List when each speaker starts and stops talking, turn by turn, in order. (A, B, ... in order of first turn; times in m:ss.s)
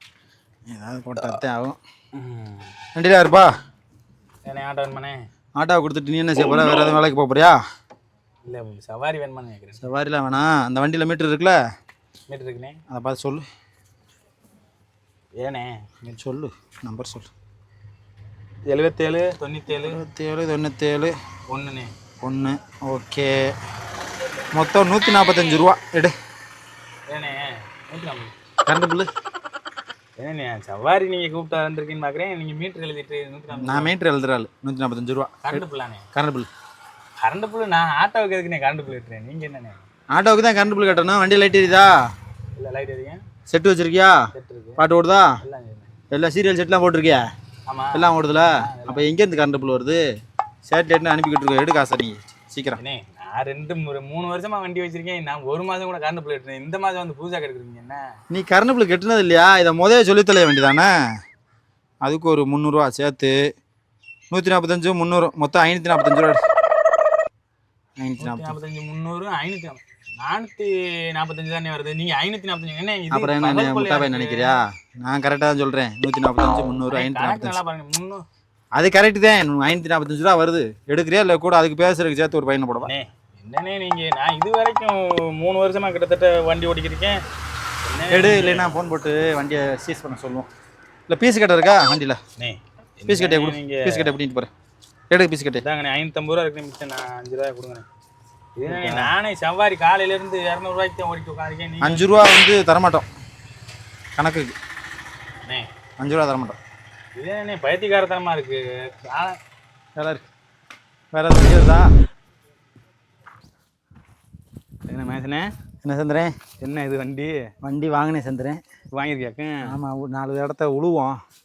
0:00.7-0:01.8 A
0:02.2-0:02.7 B
0:02.9-0:03.5 A
0:04.4-0:05.2 B
0:05.6-0:07.6 A
0:08.4-0:09.8 B
0:09.8-0:11.6 A
0:12.3-0:12.8 B
0:12.9-0:13.4 A
0:15.4-0:16.2 B
0:16.2-0:17.3 A
0:18.7-0:20.0 B
0:19.8-0:21.1 A
0:21.5-0:21.9 B
0:22.2-0:23.3 A
0:24.5-0:26.1 A
0:27.1-0:28.3 B
0:28.6-0:29.1 A
0:30.2-0:33.9 B
0:33.5-0:35.6 A
0:35.4-0:36.1 B
0:36.1-0:36.5 A
0:37.2-0:39.8 B
0:40.1-0:41.9 A
0:42.5-0:43.2 B
0:43.5-0:44.2 A
0:44.3-0:44.9 B
0:44.8-0:45.4 A
0:45.4-0:45.9 B
0:46.1-0:47.2 A
0:47.7-0:49.1 B
0:47.9-0:50.0 A
0:50.6-0:52.8 A
0:52.8-0:58.0 B
0:58.3-1:00.9 A
1:02.0-1:03.4 A
1:04.3-1:06.4 A
1:08.0-1:08.5 A
1:08.2-1:14.6 B
1:13.1-1:17.6 A
1:16.9-1:18.2 B
1:18.7-1:22.9 A
1:22.8-1:27.2 B
1:27.8-1:28.8 B
1:28.1-1:30.5 A
1:31.1-1:32.2 A
1:32.4-1:34.2 B
1:33.1-1:34.5 A
1:35.1-1:35.6 A
1:35.6-1:37.8 B
1:38.6-1:42.1 B
1:38.7-1:39.1 A
1:41.8-1:43.1 A
1:44.2-1:44.5 A
1:46.0-1:46.6 A
1:47.2-1:49.3 B
1:50.0-1:50.2 A
1:51.1-1:51.8 A
1:54.9-1:55.5 B
1:55.8-1:56.3 A
1:56.6-1:57.4 B
1:57.6-1:58.6 A
1:59.0-1:59.7 B
1:59.6-2:01.2 A